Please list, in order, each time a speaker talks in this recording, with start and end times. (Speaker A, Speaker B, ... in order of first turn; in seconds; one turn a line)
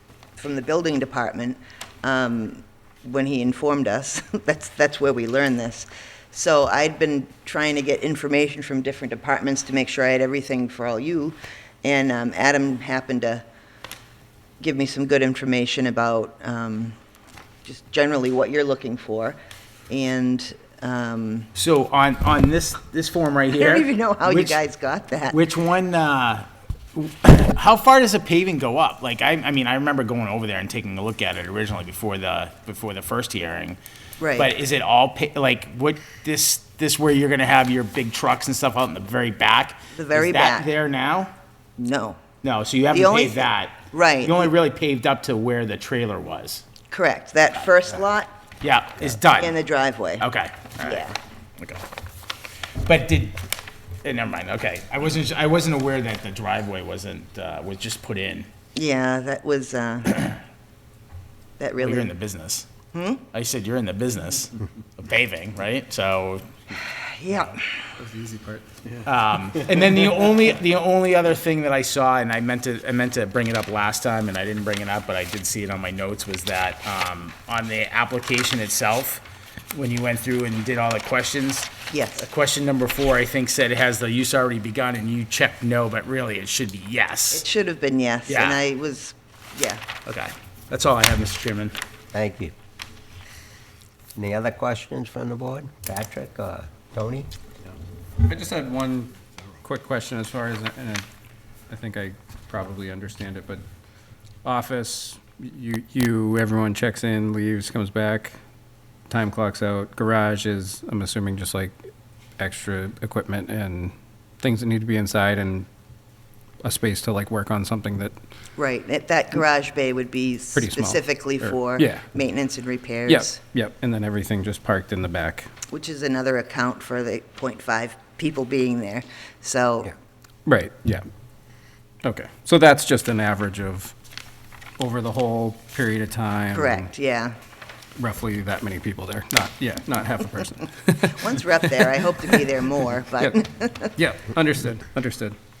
Speaker A: 0.4-13.4
Speaker A: 14.6-16.9
Speaker A: 17.6-19.4
Speaker A: 19.9-21.5
Speaker B: 21.5-24.6
Speaker A: 23.6-25.4
Speaker B: 25.3-33.8
Speaker A: 34.2-34.5
Speaker B: 34.4-41.3
Speaker A: 39.9-40.7
Speaker A: 41.8-42.2
Speaker B: 42.4-46.6
Speaker A: 42.9-44.5
Speaker A: 46.9-48.3
Speaker B: 48.6-49.6
Speaker A: 49.2-50.2
Speaker B: 50.2-51.0
Speaker A: 50.8-51.2
Speaker B: 51.6-51.8
Speaker B: 52.8-53.4
Speaker B: 54.0-58.5
Speaker A: 58.7-60.3
Speaker A: 61.6-62.1
Speaker B: 61.8-62.7
Speaker A: 62.9-63.2
Speaker B: 63.3-66.5
Speaker A: 66.8-67.6
Speaker C: 68.0-68.7
Speaker B: 69.0-87.4
Speaker A: 81.9-82.2
Speaker A: 87.3-89.8
Speaker B: 88.3-88.6
Speaker B: 90.0-91.7
Speaker D: 92.1-92.5
Speaker D: 94.2-97.3
Speaker C: 98.2-101.0
Speaker C: 101.7-103.6
Speaker C: 104.4-108.3
Speaker C: 109.1-111.7
Speaker C: 112.4-115.7
Speaker C: 116.6-118.1
Speaker A: 118.6-123.4
Speaker C: 120.5-122.0
Speaker C: 123.1-125.5
Speaker A: 125.7-129.9
Speaker C: 130.4-131.0
Speaker C: 132.0-133.9
Speaker C: 134.8-136.9
Speaker A: 136.5-137.3
Speaker C: 138.0-141.9
Speaker A: 141.2-143.9
Speaker C: 143.9-145.4